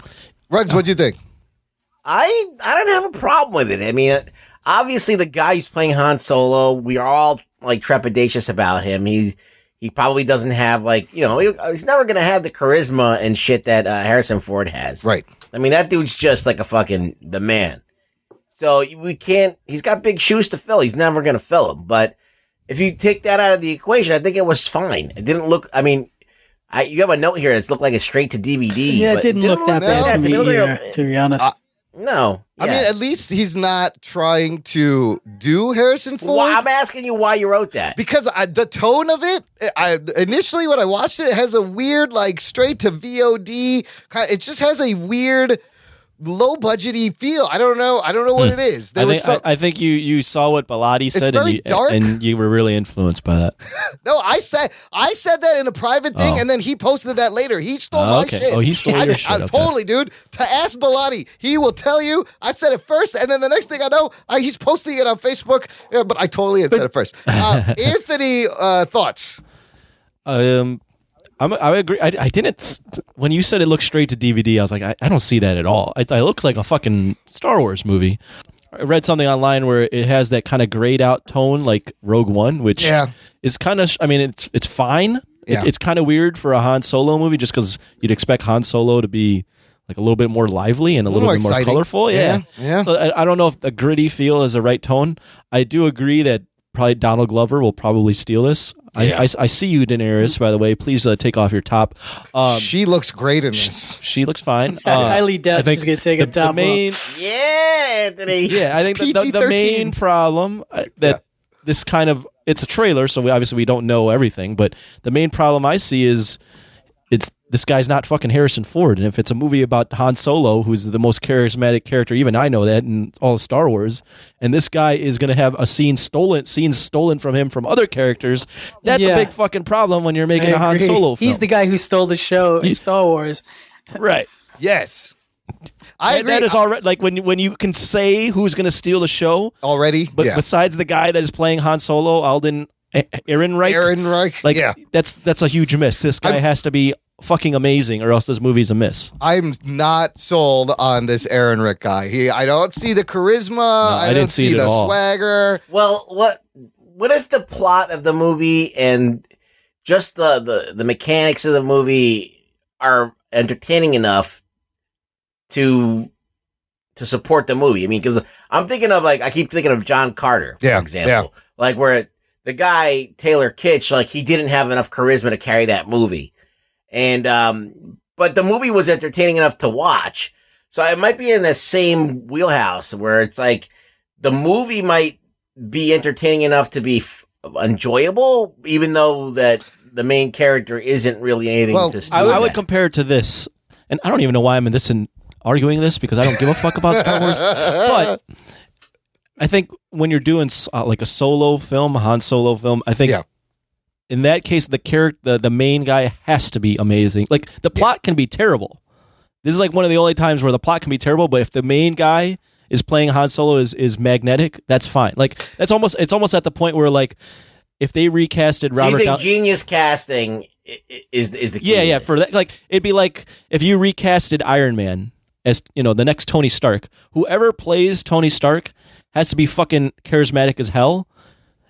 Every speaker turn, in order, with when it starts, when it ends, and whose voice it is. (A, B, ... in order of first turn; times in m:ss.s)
0:00.5-0:01.2 A
0:02.0-0:17.8 B
0:18.6-0:22.2 B
0:22.7-0:26.1 B
0:26.7-0:30.9 B
0:28.9-0:31.5 C
0:29.8-0:30.4 A
0:32.0-0:32.9 B
0:32.6-0:36.6 A
0:36.2-0:38.0 B
0:38.0-0:45.6 A
0:46.2-0:49.4 A
0:48.4-0:53.6 D
0:51.1-0:52.1 A
0:54.0-1:09.4 A
0:56.2-0:56.4 D
0:57.9-0:59.7 D
0:58.8-0:59.2 C
1:07.3-1:07.8 D
1:10.3-1:10.8 D
1:11.4-1:18.2 D
1:18.7-1:42.7 D
1:22.8-1:23.1 A
1:31.1-1:32.9 A
1:39.0-1:39.3 A
1:42.4-1:44.0 A
1:43.6-1:47.1 D
1:44.8-1:46.9 C
1:44.9-1:45.2 A
1:47.1-1:48.6 B
1:48.5-1:56.4 D
1:48.7-1:50.0 A
1:57.1-2:11.4 D
2:08.9-2:09.3 C
2:10.4-2:13.4 C
2:14.0-2:14.3 D
2:14.6-2:15.1 A
2:16.0-2:16.6 A
2:16.1-2:19.5 D
2:19.6-2:20.4 A
2:20.2-2:23.9 D
2:23.6-2:24.8 A
2:24.4-2:29.1 D
2:29.2-2:35.6 A
2:33.8-2:35.0 D
2:35.7-2:39.2 B
2:39.8-2:44.4 B
2:45.5-2:46.1 B
2:47.0-2:56.3 B
2:50.6-2:51.3 A
2:56.9-3:03.7 B
3:04.2-3:12.6 B
3:11.7-3:12.5 A
3:12.1-3:18.2 D
3:16.9-3:18.1 A
3:19.4-3:23.2 D
3:24.1-3:28.8 D
3:29.4-3:37.2 D
3:37.8-3:39.2 D
3:38.8-3:42.2 B
3:41.6-3:51.1 D